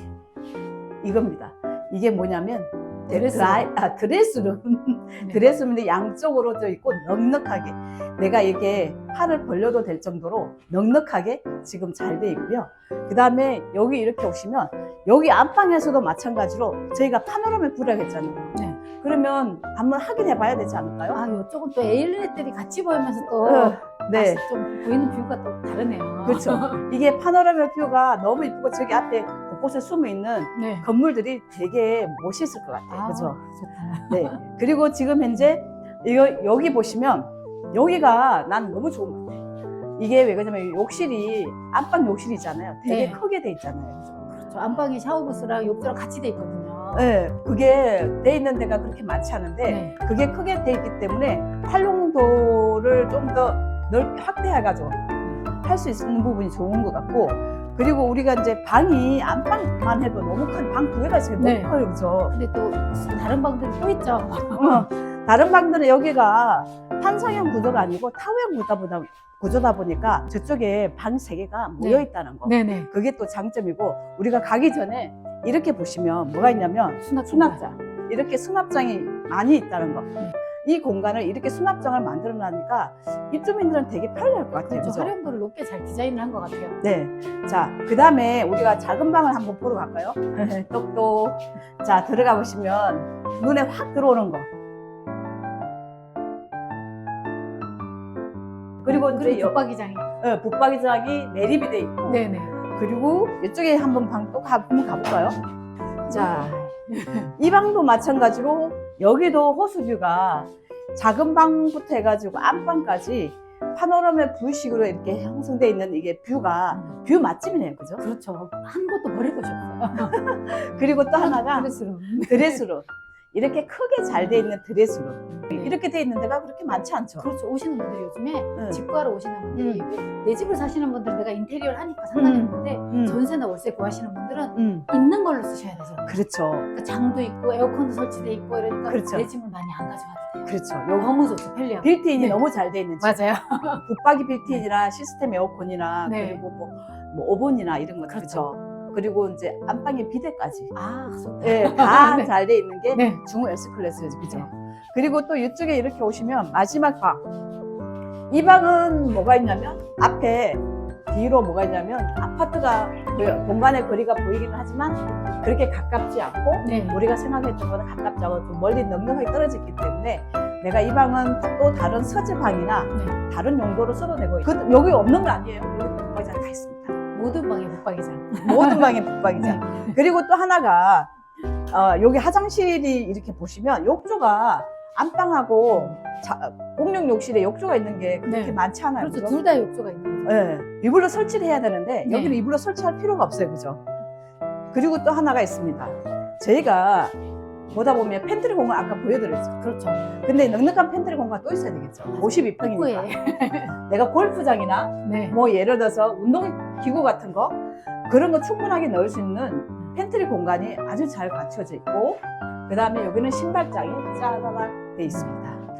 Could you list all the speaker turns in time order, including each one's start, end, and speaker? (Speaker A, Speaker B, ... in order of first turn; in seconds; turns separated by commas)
Speaker A: 1.0-21.2, Speaker B: 3.1-3.7, Speaker B: 18.5-18.8, Speaker B: 21.1-26.8, Speaker A: 23.4-24.4, Speaker A: 26.2-33.4, Speaker B: 30.6-30.9, Speaker B: 32.9-34.4, Speaker A: 34.0-39.4, Speaker A: 40.0-44.3, Speaker B: 42.8-43.2, Speaker B: 44.3-47.1, Speaker A: 46.9-55.0, Speaker B: 49.6-49.9, Speaker A: 55.6-62.3, Speaker B: 61.4-61.7, Speaker B: 62.3-64.8, Speaker A: 64.5-85.1, Speaker B: 71.8-72.9, Speaker B: 76.4-77.6, Speaker B: 84.6-86.8, Speaker A: 86.8-94.5, Speaker A: 98.8-99.6, Speaker B: 98.8-100.1, Speaker A: 100.2-105.4, Speaker B: 102.1-102.5, Speaker B: 106.1-107.3, Speaker A: 106.1-106.7, Speaker A: 107.4-118.0, Speaker B: 118.0-120.2, Speaker A: 120.0-121.7, Speaker B: 121.1-122.6, Speaker A: 122.2-127.3, Speaker B: 125.3-125.8, Speaker B: 127.2-136.2, Speaker A: 128.6-128.8, Speaker A: 129.5-129.8, Speaker A: 132.1-133.2, Speaker A: 134.6-134.8, Speaker A: 136.1-136.7, Speaker B: 136.7-142.4, Speaker A: 138.9-139.3, Speaker A: 140.4-141.1, Speaker A: 141.8-143.2, Speaker B: 143.0-143.8, Speaker A: 143.8-150.7, Speaker B: 146.0-146.4, Speaker B: 148.1-148.5, Speaker B: 150.7-152.3, Speaker A: 151.4-157.2, Speaker B: 152.9-153.2, Speaker B: 154.2-154.5, Speaker A: 158.3-176.9, Speaker B: 166.6-167.0, Speaker B: 177.1-180.0, Speaker A: 178.4-181.1, Speaker A: 181.7-189.3, Speaker B: 188.2-190.4, Speaker A: 190.2-193.8, Speaker B: 192.0-192.4, Speaker A: 194.7-197.1, Speaker A: 197.7-199.6, Speaker B: 199.6-200.1, Speaker A: 200.2-203.2, Speaker B: 202.1-203.7, Speaker A: 203.7-215.6, Speaker B: 205.0-205.3